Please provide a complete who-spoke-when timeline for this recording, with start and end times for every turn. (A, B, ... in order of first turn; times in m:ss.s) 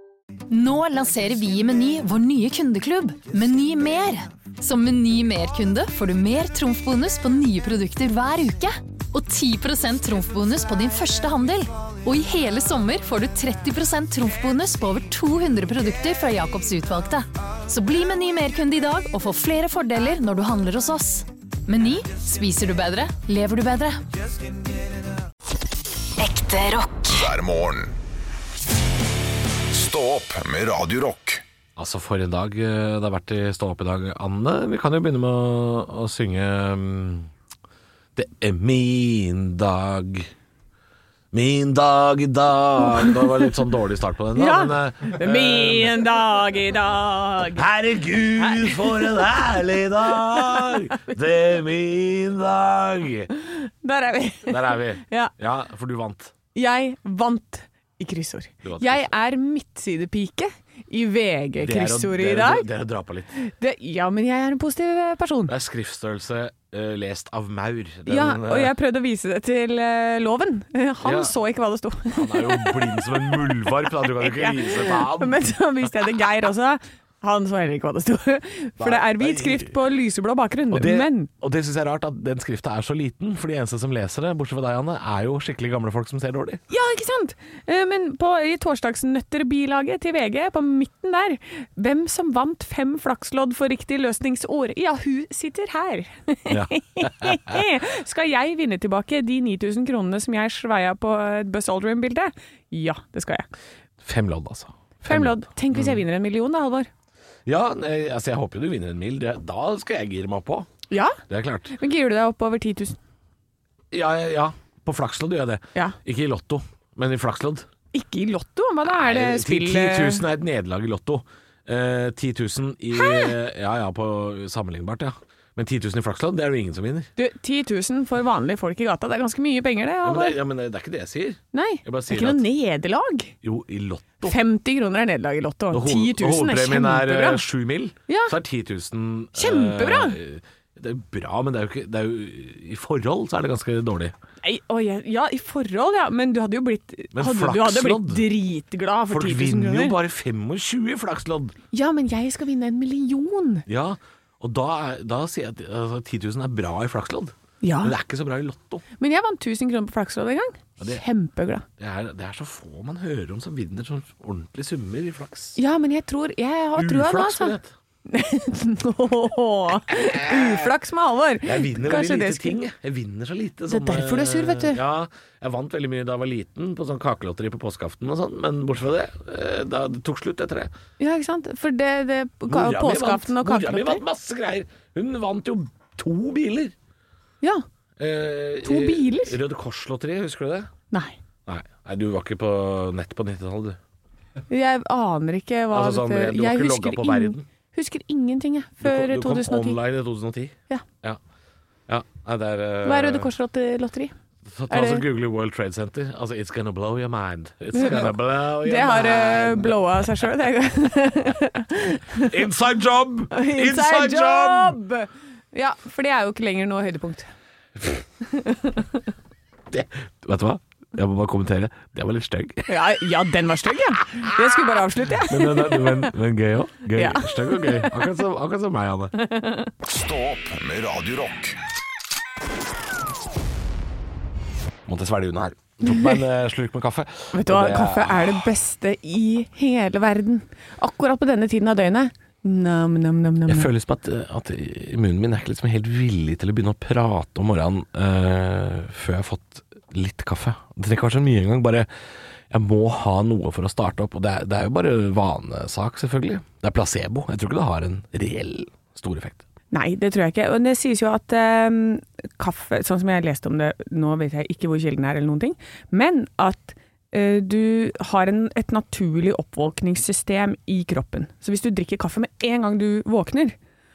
0:00.5-0:24.0 A
0:26.2-0:27.1 A
0:27.1-0:27.9 B
0:29.7-0:31.4 B
0:31.8-0:37.3 C
0:38.2-0:40.3 C
0:41.3-0:46.0 C
0:44.3-0:47.6 D
0:47.6-0:53.3 C
0:48.4-0:48.9 D
0:50.6-0:51.1 D
0:53.5-0:55.3 D
0:54.5-0:56.3 C
0:56.6-1:02.7 D
0:58.6-0:59.1 C
1:01.6-1:03.3 C
1:03.4-1:05.5 D
1:05.5-1:08.8 C
1:08.1-1:13.0 D
1:11.0-1:11.3 C
1:12.1-1:15.4 C
1:14.0-1:21.3 D
1:18.8-1:19.8 C
1:20.7-1:26.6 C
1:26.7-1:43.5 D
1:36.5-1:37.6 C
1:44.0-1:46.0 C
1:45.1-1:46.9 D
1:47.4-1:50.7 C
1:50.9-1:51.2 D
1:51.3-1:51.8 C
1:51.7-1:53.0 D
1:53.9-1:57.7 C
1:57.9-2:00.2 D
1:58.9-2:07.1 C
2:02.9-2:03.3 D
2:07.2-2:10.4 D
2:10.0-2:12.4 C
2:11.5-2:13.3 D
2:13.4-2:14.4 C
2:14.2-2:17.4 D
2:15.7-2:24.1 C
2:18.1-2:18.3 D
2:19.4-2:20.2 D
2:24.4-2:30.0 D
2:27.1-2:28.2 C
2:29.1-2:31.6 C
2:31.7-2:33.7 D
2:33.7-2:38.8 C
2:37.6-2:37.9 D
2:39.0-2:41.7 D
2:41.8-2:45.6 C
2:45.6-2:47.6 D
2:46.8-2:47.7 C
2:48.1-2:52.6 D
2:49.9-2:50.7 C
2:51.4-3:00.7 C
2:53.7-2:54.8 D
3:01.0-3:04.0 D
3:02.5-3:06.8 C
3:08.0-3:10.7 C
3:08.6-3:09.4 D
3:11.5-3:13.8 C
3:14.5-3:19.8 D
3:15.7-3:17.5 C
3:18.8-3:21.2 C
3:21.9-3:23.3 C
3:22.8-3:24.1 D
3:24.5-3:29.8 C
3:24.7-3:25.0 D
3:27.7-3:32.3 D
3:32.2-3:34.8 C
3:33.3-3:37.3 D
3:38.3-3:38.8 D
3:39.7-3:42.7 C
3:42.7-3:46.1 D
3:45.2-3:49.1 C
3:46.9-3:48.0 D
3:49.2-3:49.7 D
3:49.8-3:51.6 B
3:54.8-3:58.5 C
3:55.8-3:56.1 D
3:57.3-4:03.7 D
4:03.5-4:11.9 C
4:12.5-4:19.4 C
4:19.7-4:33.6 D